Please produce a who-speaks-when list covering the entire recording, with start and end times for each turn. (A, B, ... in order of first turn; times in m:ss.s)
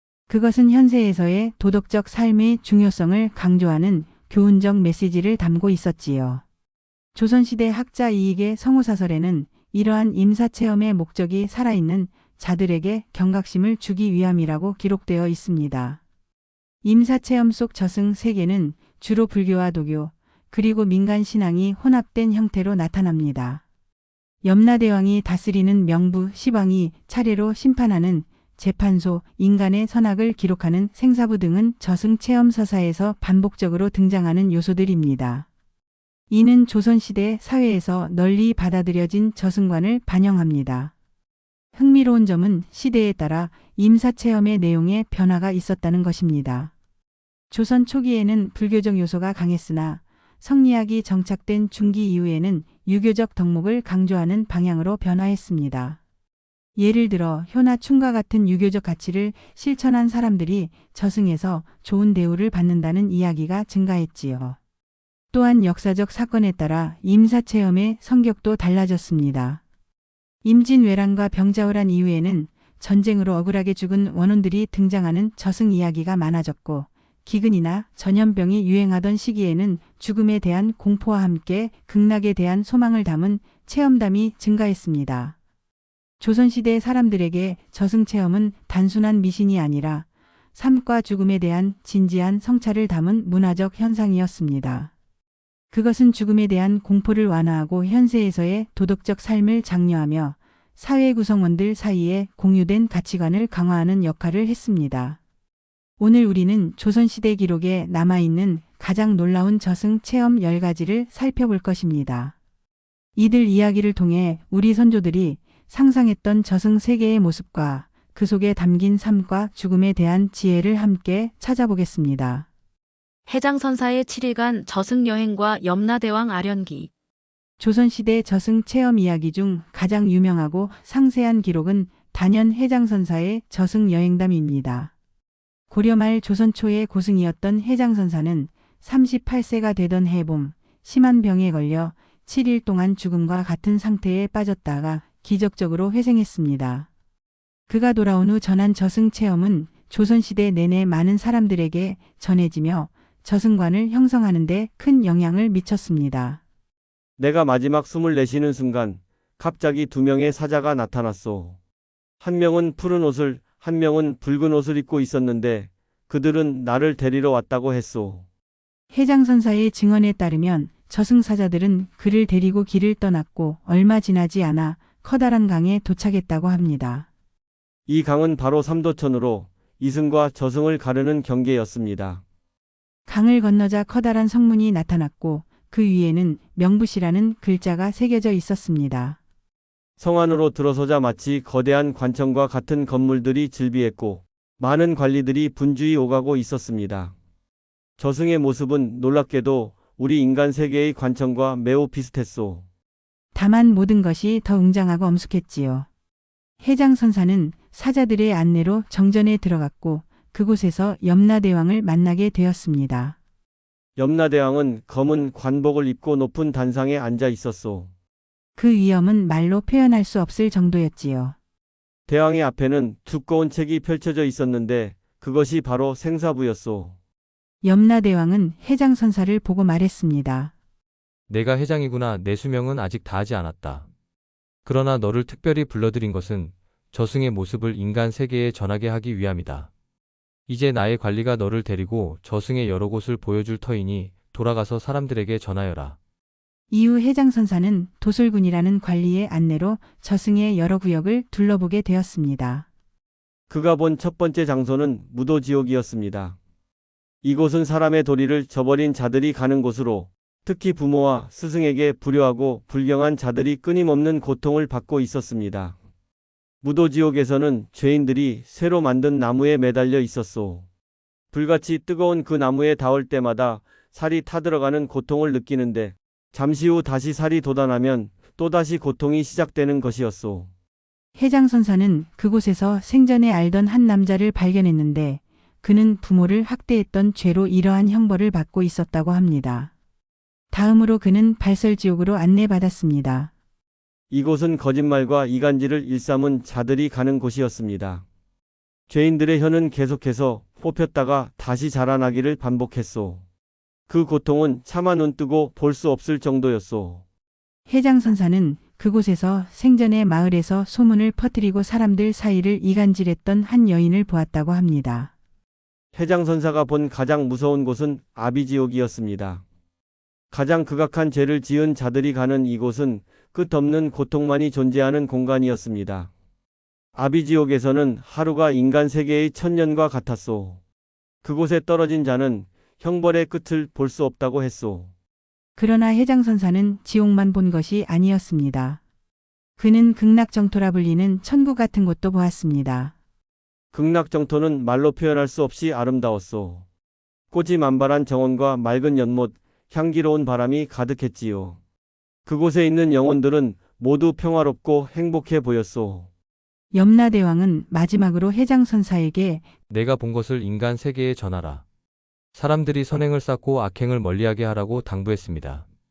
0:00.3-0:06.4 A
0:07.1-0:16.0 A
0:16.8-0:23.6 A
0:24.4-0:35.5 A
0:36.3-0:40.9 A
0:41.7-0:46.7 A
0:47.5-0:56.0 A
0:56.8-1:04.6 A
1:05.3-1:09.6 A
1:10.4-1:25.4 A
1:26.2-1:34.9 A
1:35.7-1:45.2 A
1:46.0-1:52.3 A
1:53.2-2:02.5 A
2:03.3-2:06.9 B
2:07.6-2:14.9 A
2:15.7-2:26.9 A
2:27.7-2:36.4 A
2:37.2-2:41.6 C
2:42.2-2:48.2 C
2:48.9-2:57.1 A
2:57.9-3:02.2 C
3:03.1-3:09.2 A
3:10.0-3:17.1 C
3:18.0-3:22.6 C
3:23.3-3:25.9 A
3:26.6-3:33.2 A
3:34.0-3:37.9 C
3:38.6-3:41.4 A
3:42.1-3:47.0 C
3:47.6-3:50.5 A
3:51.3-3:53.9 D
3:54.6-3:59.7 D
4:00.5-4:06.0 D
4:06.7-4:12.6 A
4:13.5-4:16.4 C
4:17.2-4:25.8 C
4:26.6-4:30.6 C
4:31.3-4:40.5 C
4:41.2-4:49.7 A
4:50.5-4:53.3 A
4:54.1-4:58.0 C
4:58.9-5:03.2 C
5:03.9-5:07.0 C
5:07.7-5:15.1 A
5:15.9-5:19.4 C
5:20.3-5:26.1 C
5:26.9-5:30.6 C
5:31.2-5:34.9 C
5:35.6-5:38.8 A
5:39.6-5:42.9 A
5:43.7-5:46.6 C
5:47.3-5:51.6 C
5:52.2-5:56.1 C
5:56.7-5:59.4 A
5:59.7-6:01.6 D
6:02.3-6:05.6 D